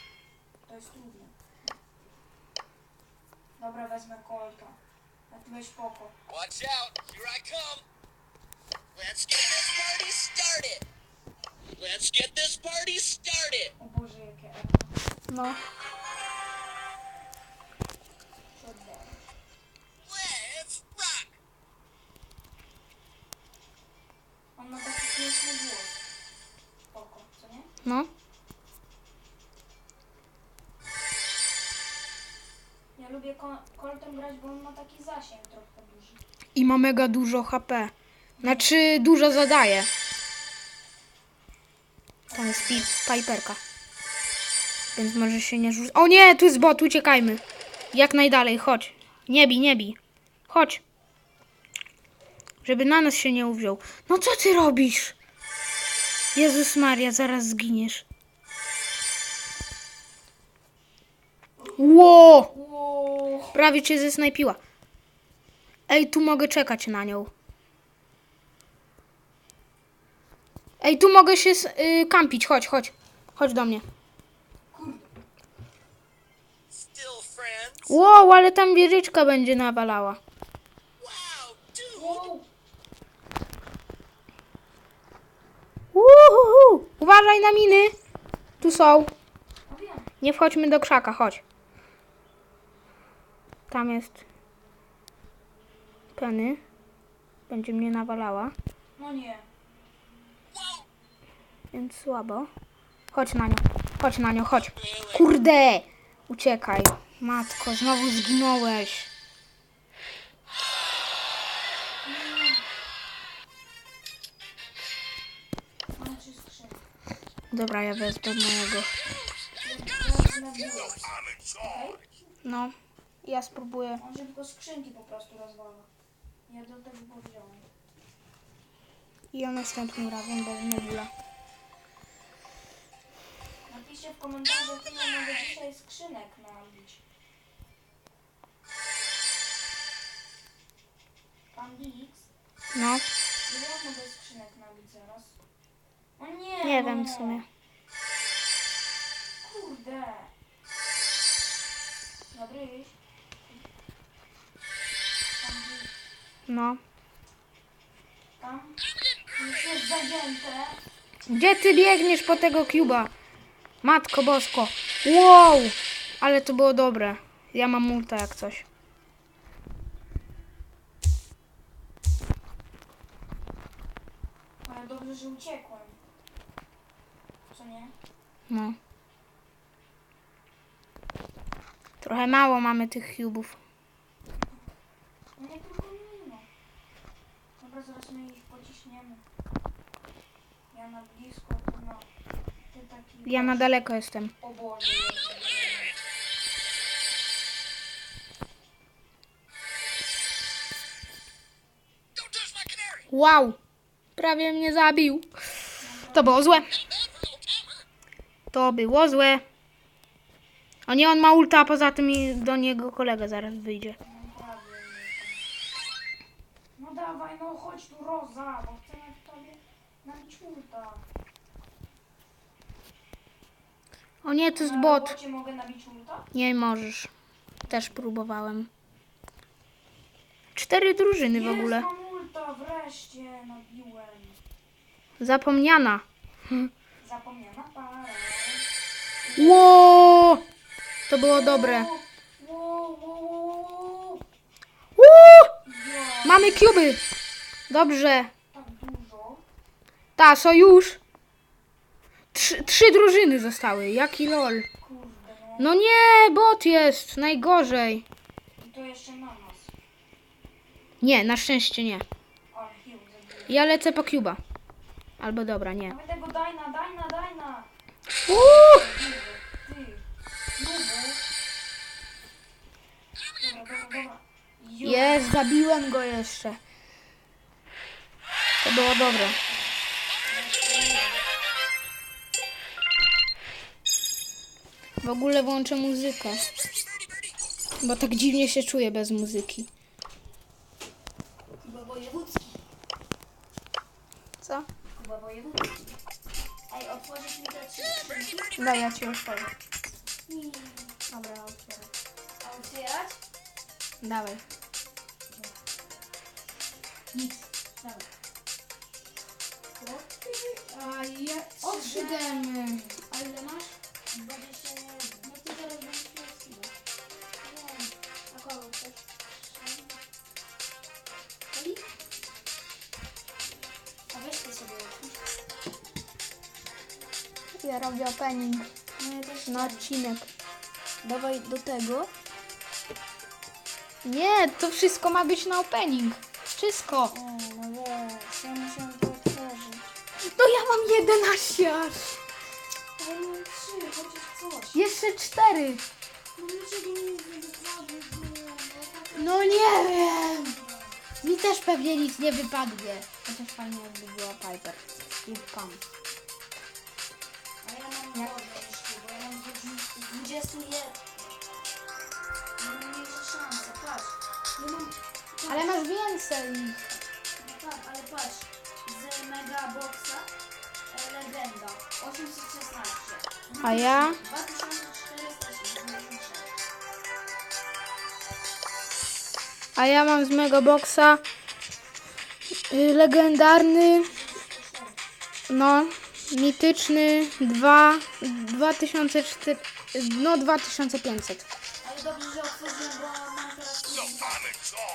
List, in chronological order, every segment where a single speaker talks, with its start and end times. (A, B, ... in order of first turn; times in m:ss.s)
0:00.7-0:01.8 A
0:03.6-0:04.8 A
0:05.3-0:06.1 A
0:06.3-0:07.8 B
0:09.0-0:10.8 B
0:11.8-0:13.7 B
0:13.8-0:14.9 A
0:15.3-0:15.6 C
0:18.6-0:19.2 A
0:20.1-0:21.3 B
0:24.6-0:26.0 A
0:26.9-0:27.7 A
0:27.8-0:28.1 C
0:33.0-0:36.2 A
0:36.6-0:39.9 C
0:38.4-0:38.7 A
0:42.3-0:43.0 A
0:42.3-0:43.6 C
0:45.0-0:47.4 C
0:47.9-0:50.0 C
0:50.5-0:50.8 C
0:52.6-0:55.2 C
0:56.4-0:58.0 C
1:01.6-1:03.6 A
1:01.8-1:02.5 C
1:03.5-1:04.6 C
1:05.9-1:07.3 C
1:10.8-1:13.8 C
1:14.7-1:15.1 A
1:16.8-1:17.8 B
1:17.9-1:20.2 C
1:21.0-1:22.1 B
1:21.9-1:22.5 A
1:25.9-1:27.9 C
1:28.6-1:29.1 A
1:28.6-1:29.1 C
1:29.7-1:30.1 A
1:30.2-1:31.4 C
1:33.7-1:34.2 C
1:36.2-1:36.6 C
1:37.5-1:38.6 C
1:39.0-1:39.5 A
1:41.7-1:42.5 C
1:43.1-1:49.1 C
1:52.0-1:52.6 A
1:56.0-1:56.8 A
1:57.5-1:58.9 C
1:59.6-2:02.0 A
2:02.4-2:04.0 C
2:04.0-2:05.9 A
2:06.5-2:07.6 A
2:09.3-2:11.1 C
2:13.7-2:17.0 A
2:21.5-2:22.3 A
2:22.7-2:23.0 C
2:23.5-2:25.4 A
2:26.2-2:27.4 A
2:26.6-2:27.5 C
2:29.4-2:30.3 A
2:32.3-2:33.0 A
2:35.4-2:35.9 A
2:36.5-2:36.8 C
2:38.4-2:38.8 A
2:39.3-2:40.8 A
2:41.3-2:43.1 C
2:43.8-2:48.7 C
2:54.6-2:56.0 A
2:57.5-2:57.9 A
2:58.5-2:58.8 C
3:02.0-3:03.6 C
3:05.4-3:06.5 A
3:07.6-3:09.2 A
3:10.7-3:12.1 A
3:12.7-3:13.7 A
3:13.3-3:14.3 C
3:14.4-3:16.0 A
3:22.2-3:23.0 B
3:23.1-3:23.6 C
3:24.2-3:25.3 C
3:25.8-3:26.7 A
3:26.1-3:26.7 C
3:28.5-3:29.4 C
3:30.9-3:34.0 C
3:34.0-3:35.4 A
3:36.8-3:41.0 A
3:44.2-3:45.2 C
3:44.6-3:46.3 A
3:46.3-3:47.1 C
3:47.6-3:48.1 A
3:47.7-3:48.7 C
3:50.5-3:51.9 C
3:51.3-3:54.4 A
3:55.2-3:56.7 C
3:57.0-3:58.7 A
3:59.2-4:00.3 A
3:59.4-4:00.4 C
4:01.1-4:01.9 C
4:01.3-4:04.2 A
4:05.0-4:05.5 C
4:05.6-4:06.8 A
4:06.2-4:07.0 C
4:07.7-4:08.3 C
4:08.5-4:09.4 A
4:10.2-4:11.0 C
4:12.3-4:14.7 C
4:12.4-4:12.7 A
4:14.8-4:15.8 A
4:15.6-4:18.0 C
4:18.6-4:19.7 A
4:21.0-4:22.0 C
4:22.5-4:23.6 A
4:23.5-4:24.4 C
4:25.2-4:26.0 C
4:25.9-4:27.7 A
4:28.2-4:30.0 A
4:28.3-4:28.8 C
4:30.6-4:31.2 A
4:33.4-4:35.3 A
4:34.8-4:36.6 C
4:38.6-4:39.4 C
4:38.7-4:41.2 A
4:45.0-4:46.4 C
4:47.8-4:49.7 C
4:51.6-4:52.6 A
4:54.4-4:54.7 C
4:54.9-4:55.9 A
4:56.7-4:58.5 A
4:58.6-4:59.5 C
5:00.3-5:01.0 A
5:01.1-5:01.9 C
5:02.4-5:03.2 A
5:04.0-5:04.4 C
5:07.1-5:08.1 A
5:09.8-5:13.0 A
5:10.7-5:13.7 C
5:14.1-5:16.7 A
5:17.4-5:20.0 A
5:21.5-5:21.9 A
5:24.1-5:25.3 A
5:27.6-5:28.7 C
5:29.0-5:29.9 A
5:29.5-5:30.3 C
5:31.0-5:32.1 A
5:34.0-5:37.1 C
5:37.1-5:39.9 A
5:40.2-5:42.2 C
5:43.0-5:44.8 A
5:44.7-5:45.8 C
5:46.4-5:51.0 A
5:49.1-5:50.6 C
5:51.2-5:55.8 C
5:57.6-6:01.3 A
6:02.6-6:05.8 A
6:05.5-6:06.8 C
6:07.4-6:10.3 A
6:10.9-6:16.5 A
6:13.6-6:14.2 C
6:19.8-6:21.2 C
6:22.7-6:24.1 C
6:24.0-6:25.0 A
6:25.5-6:31.5 C
6:31.8-6:34.6 A